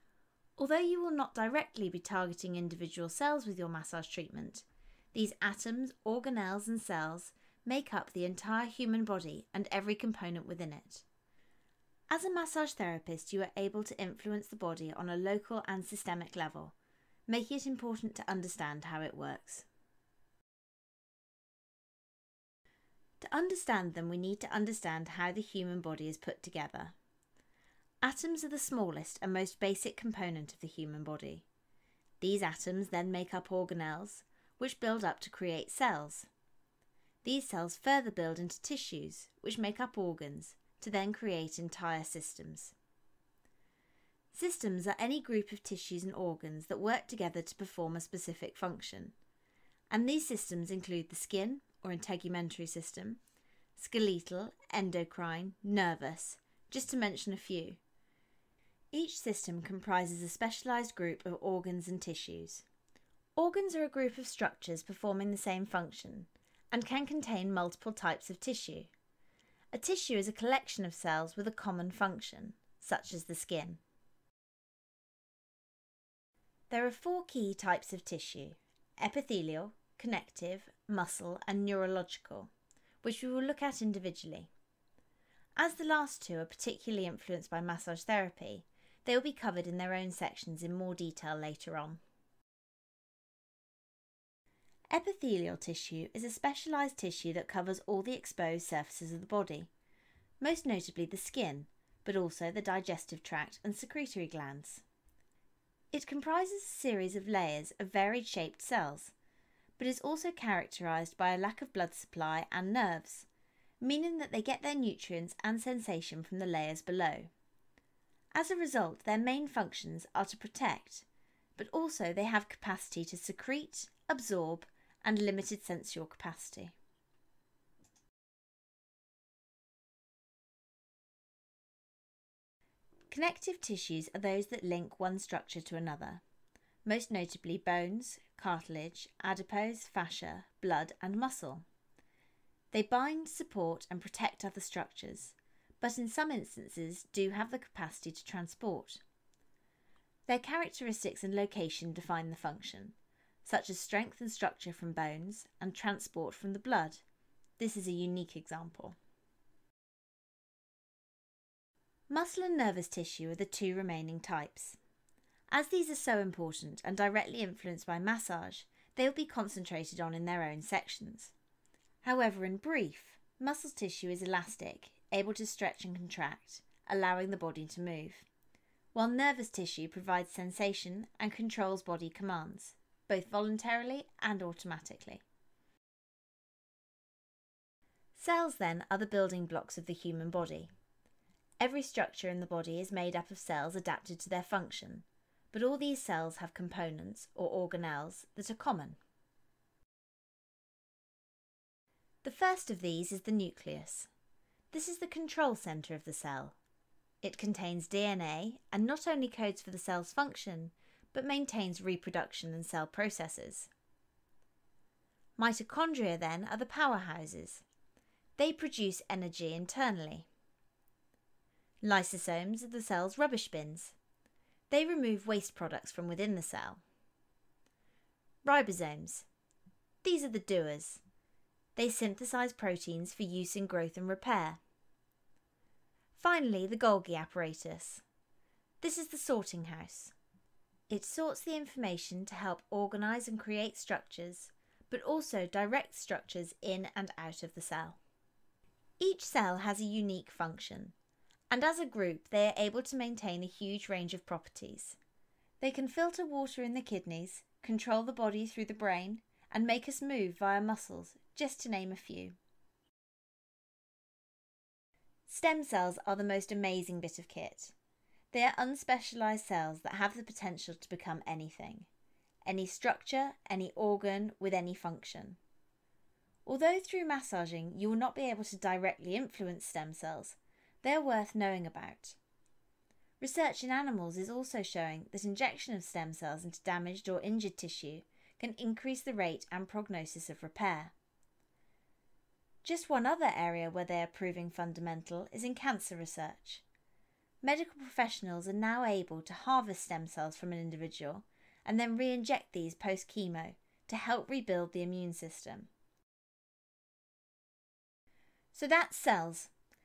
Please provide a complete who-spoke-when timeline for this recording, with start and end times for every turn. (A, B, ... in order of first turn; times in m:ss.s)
0:00.6-0:11.1 A
0:12.1-0:16.7 A
0:17.3-0:19.7 A
0:23.2-0:27.0 A
0:28.0-0:31.5 A
0:32.2-0:36.3 A
0:37.2-0:42.8 A
0:44.3-0:49.1 A
0:49.9-0:53.2 A
0:53.8-0:57.8 A
0:58.9-1:02.7 A
1:03.4-1:08.9 A
1:09.7-1:13.8 A
1:16.7-1:22.5 A
1:23.0-1:24.5 A
1:25.6-1:32.0 A
1:34.9-1:39.7 A
1:40.4-1:44.8 A
1:45.9-1:49.1 A
1:49.8-1:53.3 A
1:53.8-1:57.3 A
1:58.3-2:06.8 A
2:13.1-2:16.2 A
2:16.8-2:21.6 A
2:22.7-2:29.0 A
2:30.3-2:37.0 A
2:37.6-2:39.0 A
2:42.1-2:44.8 A
2:45.5-2:51.3 A
2:52.0-2:58.3 A
2:58.9-3:05.2 A
3:08.2-3:10.7 A
3:11.6-3:19.0 A
3:22.2-3:24.1 A
3:24.7-3:26.6 A
3:27.2-3:33.7 A
3:35.4-3:37.6 A
3:38.4-3:40.3 A
3:41.8-3:44.0 A
3:44.7-3:46.8 A
3:48.4-3:49.3 A
3:50.0-3:51.0 A
3:51.8-3:54.6 A
3:56.2-3:58.0 A
3:58.8-4:00.1 A
4:00.9-4:08.0 A
4:09.0-4:10.9 A
4:11.5-4:15.0 A
4:15.6-4:22.4 A
4:25.3-4:27.7 A
4:28.3-4:31.9 A
4:32.4-4:35.4 A
4:36.5-4:42.2 A
4:43.2-4:50.9 A
4:52.6-4:56.6 A
4:57.4-5:05.7 A
5:08.5-5:09.5 A